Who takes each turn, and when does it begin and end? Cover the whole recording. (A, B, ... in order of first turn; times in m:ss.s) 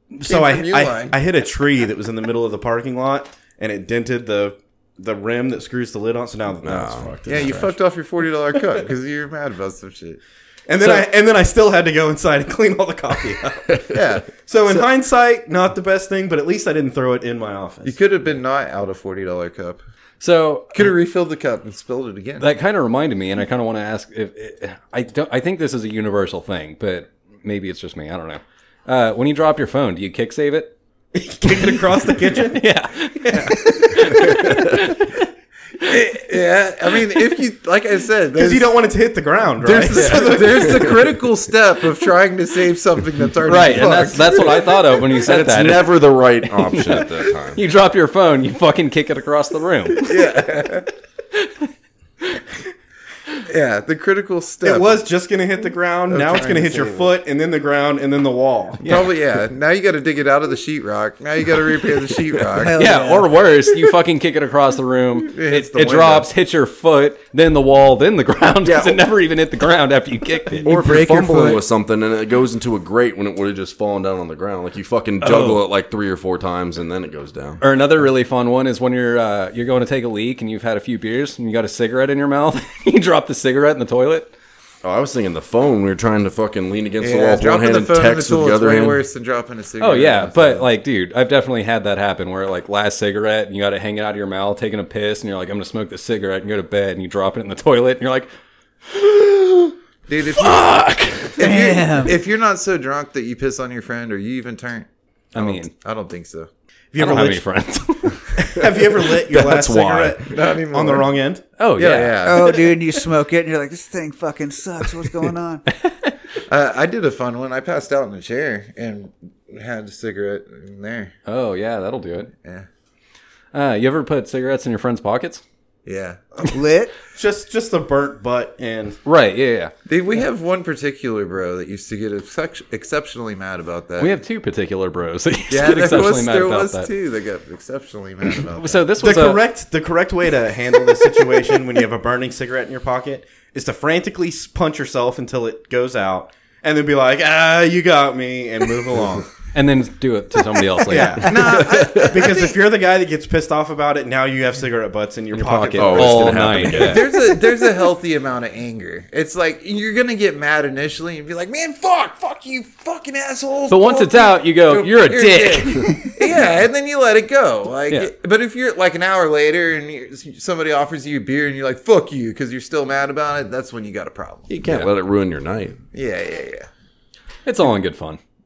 0:00.1-0:07.7 A
0:00.2-0:01.2 B
0:06.6-0:07.5 C
0:07.3-0:10.2 B
0:08.5-0:08.8 A
0:10.7-0:18.0 A
0:13.7-0:13.9 C
0:13.9-0:14.3 B
0:17.8-0:19.8 B
0:20.2-0:20.8 D
0:20.7-0:22.5 B
0:22.4-0:30.7 D
0:31.1-0:32.7 A
0:32.5-0:35.2 D
0:33.2-0:34.0 A
0:34.2-0:34.8 C
0:35.8-0:38.7 B
0:38.3-0:41.0 A
0:39.6-0:44.7 B
0:40.0-0:40.3 D
0:40.6-0:41.0 C
0:43.4-0:50.2 D
0:45.2-0:47.6 C
0:50.0-0:50.9 B
0:53.4-0:55.0 B
0:54.6-0:59.0 A
0:56.1-0:57.1 B
0:58.8-1:02.8 B
1:02.5-1:03.3 E
1:02.8-1:10.8 D
1:05.3-1:06.3 B
1:08.6-1:09.0 C
1:10.6-1:17.6 C
1:10.6-1:11.6 E
1:15.2-1:15.6 D
1:17.6-1:24.3 D
1:24.8-1:29.0 C
1:27.0-1:30.7 B
1:29.8-1:38.3 D
1:38.8-1:39.7 D
1:40.1-1:40.8 B
1:40.3-1:41.4 D
1:41.4-1:46.5 B
1:41.4-1:42.2 E
1:45.3-1:45.7 D
1:46.9-1:47.4 A
1:47.0-1:48.6 D
1:48.4-1:51.4 A
1:49.3-1:50.2 C
1:50.2-1:51.1 B
1:51.6-1:52.4 D
1:51.8-1:52.7 B
1:52.2-1:55.6 E
1:55.7-1:56.1 D
1:56.5-2:01.1 B
2:01.2-2:02.3 D
2:03.5-2:05.4 D
2:05.8-2:06.2 B
2:06.4-2:06.9 E
2:07.1-2:09.0 A
2:09.0-2:09.7 D
2:09.9-2:14.1 B
2:14.0-2:16.9 D
2:15.5-2:18.9 B
2:18.3-2:19.4 D
2:19.0-2:29.3 A
2:29.5-2:31.4 D
2:30.9-2:37.0 A
2:31.2-2:32.6 B
2:31.6-2:32.1 C
2:35.3-2:37.0 D
2:35.8-2:37.1 C
2:36.8-2:54.5 B
2:43.7-2:46.1 D
2:54.5-2:55.8 C
2:54.6-2:54.9 D
2:55.9-2:56.7 B
2:57.4-2:58.2 D